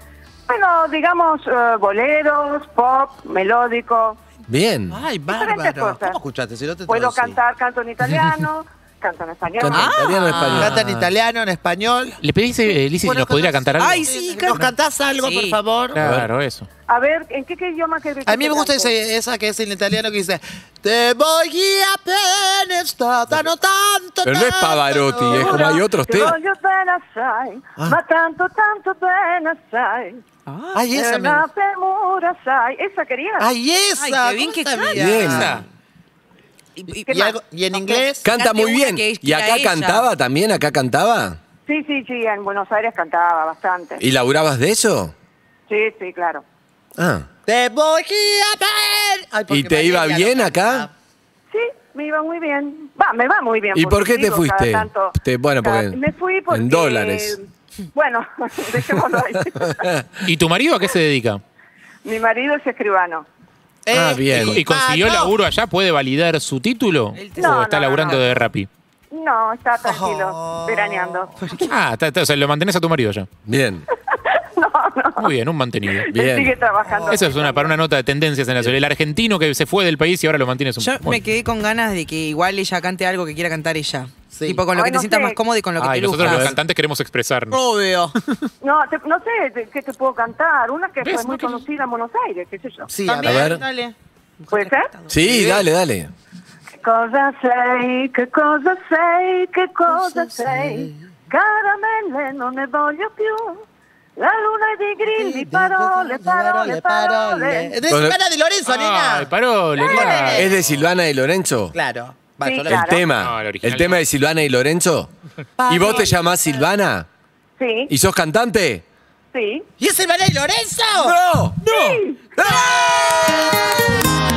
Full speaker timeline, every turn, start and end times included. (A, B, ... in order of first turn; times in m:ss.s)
0:00.5-0:04.2 A
0:04.5-0:05.0 B
0:04.9-0:07.4 C
0:05.3-0:06.2 A
0:06.9-0:10.0 A
0:09.6-0:10.8 B
0:09.8-0:10.5 D
0:10.4-0:11.1 E
0:10.5-0:16.0 C
0:12.2-0:14.7 E
0:13.8-0:14.6 D
0:15.2-0:15.6 D
0:15.9-0:16.7 E
0:16.0-0:16.3 B
0:16.9-0:18.9 A
0:18.3-0:26.3 C
0:24.2-0:26.4 B
0:25.3-0:30.2 A
0:30.5-0:30.8 D
0:30.8-0:31.4 C
0:30.9-0:33.5 A
0:33.4-0:35.6 C
0:34.2-0:34.9 D
0:34.9-0:35.6 B
0:35.2-0:35.6 E
0:36.8-0:37.2 D
0:37.1-0:38.3 C
0:38.2-0:41.4 B
0:38.4-0:40.1 D
0:41.7-0:44.0 A
0:44.0-0:45.1 B
0:45.7-0:46.4 A
0:47.0-0:47.3 B
0:47.5-0:50.9 C
0:49.5-0:50.9 B
0:51.5-0:57.4 A
0:53.7-0:57.4 B
0:57.9-0:59.9 A
0:59.6-1:00.2 B
1:00.2-1:01.4 E
1:02.0-1:03.3 A
1:03.9-1:05.3 C
1:03.9-1:04.6 B
1:04.3-1:08.7 E
1:07.2-1:07.5 D
1:07.4-1:08.3 A
1:09.1-1:11.3 A
1:09.8-1:11.7 C
1:11.6-1:13.3 E
1:13.5-1:13.9 B
1:14.1-1:15.3 A
1:15.2-1:16.1 E
1:15.9-1:17.8 A
1:16.1-1:16.5 B
1:16.8-1:17.3 C
1:17.1-1:21.2 E
1:20.8-1:26.4 D
1:24.3-1:24.6 C
1:24.7-1:25.4 A
1:25.8-1:27.6 E
1:26.2-1:26.6 B
1:27.5-1:28.1 D
1:28.6-1:32.9 A
1:31.0-1:31.7 E
1:32.9-1:33.6 C
1:33.1-1:35.7 D
1:33.2-1:33.6 B
1:34.5-1:34.9 A
1:35.1-1:36.1 B
1:36.8-1:43.6 A
1:39.9-1:41.1 C
1:44.2-1:47.8 A
1:45.1-1:50.8 C
1:47.9-1:48.2 B
1:48.6-1:50.5 E
1:50.1-1:51.8 B
1:51.7-1:52.8 C
1:52.4-1:53.0 A
1:52.7-1:55.1 B
1:53.2-1:54.0 E
1:55.6-1:56.3 C
1:55.7-1:57.1 B
1:57.6-1:57.9 A
1:57.9-1:58.8 B
1:59.3-1:59.7 A
1:59.8-2:01.2 C
2:01.0-2:01.6 B
2:01.6-2:02.4 A
2:01.7-2:02.0 E
2:02.4-2:03.6 B
2:02.8-2:04.0 C